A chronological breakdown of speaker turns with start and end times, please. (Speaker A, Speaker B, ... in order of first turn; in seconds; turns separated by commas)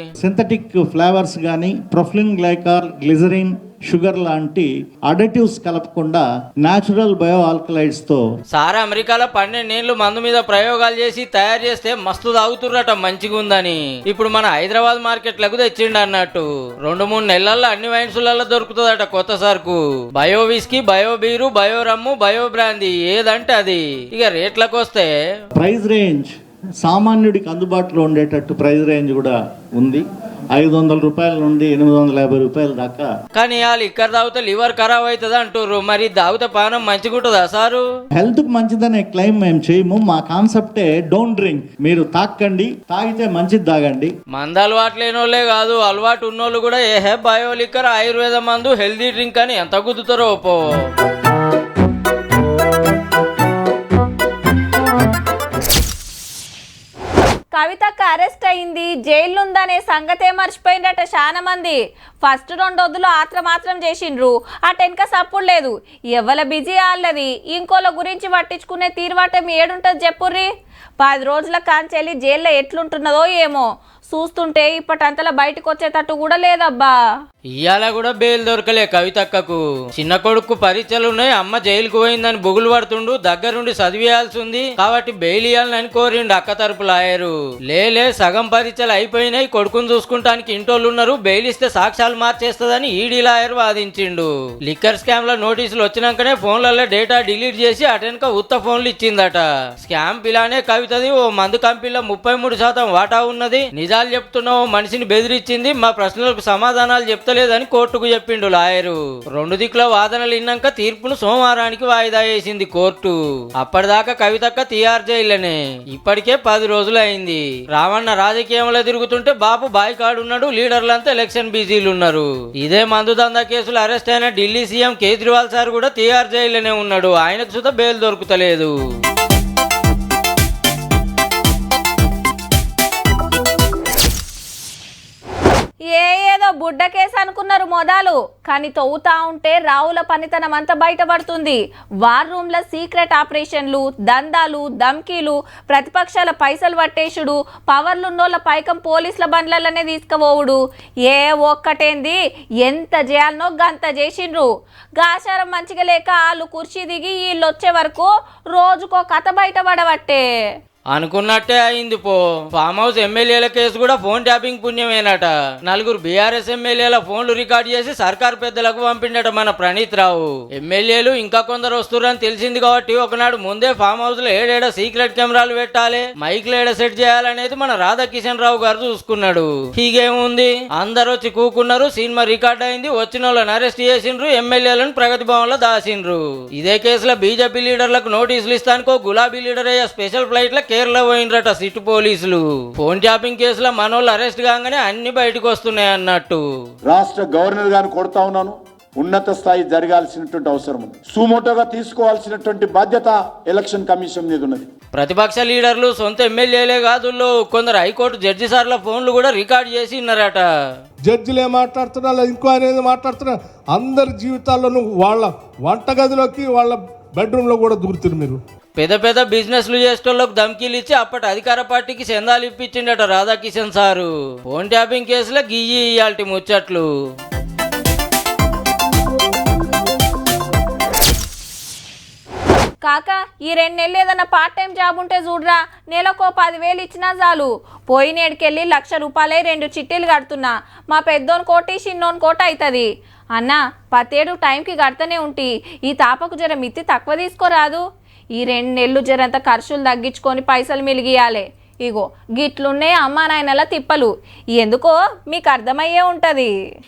Speaker A: 0.2-8.2, Speaker B: 8.5-25.1, Speaker A: 25.6-26.3, Speaker A: 26.8-33.1, Speaker B: 33.4-37.8, Speaker A: 38.2-44.1, Speaker B: 44.3-50.6, Speaker C: 57.5-70.5, Speaker C: 71.0-76.9, Speaker B: 77.5-128.7, Speaker C: 135.9-160.2, Speaker B: 160.9-196.4, Speaker D: 196.8-204.7, Speaker B: 204.9-210.4, Speaker E: 211.1-218.4, Speaker B: 218.8-226.9, Speaker C: 232.8-247.8, Speaker C: 248.4-256.5